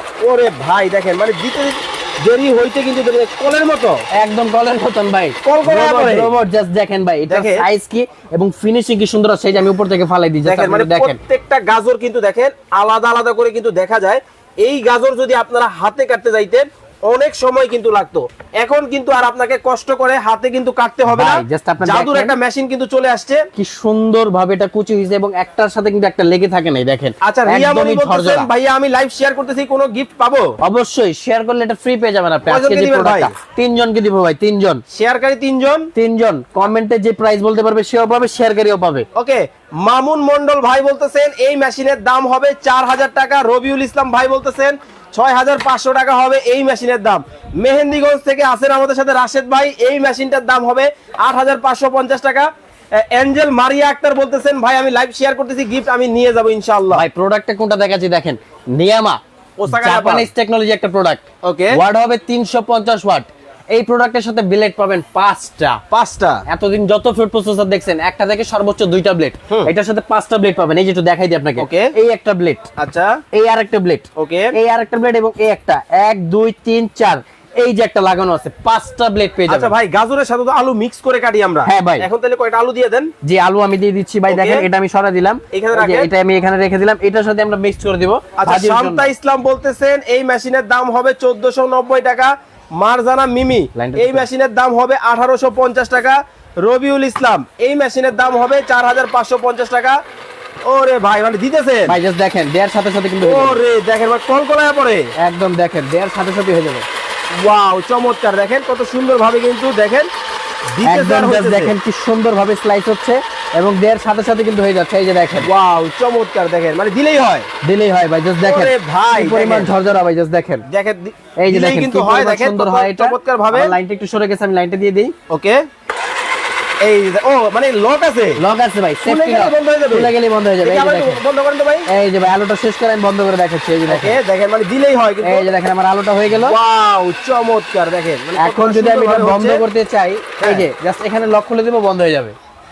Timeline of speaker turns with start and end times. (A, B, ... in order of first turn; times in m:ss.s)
0:00.2-0:04.0 A
0:04.1-0:11.2 B
0:05.4-0:06.3 A
0:07.3-0:07.6 A
0:10.4-0:23.4 A
0:21.1-0:22.3 B
0:23.6-0:28.5 B
0:27.2-0:30.5 A
0:30.6-0:34.8 B
0:32.4-0:33.3 A
0:34.9-0:35.9 A
0:35.9-0:39.0 B
0:39.1-0:57.0 A
0:56.9-1:01.2 B
0:59.6-1:00.3 A
1:01.4-1:01.8 A
1:01.7-1:05.8 B
1:05.9-1:06.4 A
1:06.5-1:12.7 B
1:11.6-1:11.9 A
1:12.8-1:13.2 A
1:13.3-1:19.7 B
1:14.2-1:14.5 A
1:19.5-1:23.1 A
1:21.6-1:22.0 B
1:23.2-1:29.1 B
1:24.3-1:24.6 A
1:25.5-1:26.1 A
1:28.4-1:40.0 A
1:33.7-1:34.2 B
1:40.7-1:42.0 A
1:41.9-1:43.6 B
1:43.2-1:45.0 A
1:45.2-1:46.8 B
1:47.4-1:50.1 A
1:50.7-1:51.7 A
1:50.8-1:55.5 B
1:55.4-1:57.5 A
1:57.6-2:00.6 B
1:58.4-1:59.7 A
2:00.7-2:03.8 A
2:01.4-2:05.1 B
2:05.3-2:05.6 A
2:06.8-2:08.4 A
2:08.4-2:11.2 B
2:09.0-2:10.1 A
2:10.6-2:11.9 A
2:11.9-2:14.2 B
2:13.9-2:15.5 A
2:15.2-2:16.6 B
2:16.3-2:19.6 A
2:18.4-2:22.3 B
2:20.4-2:20.7 A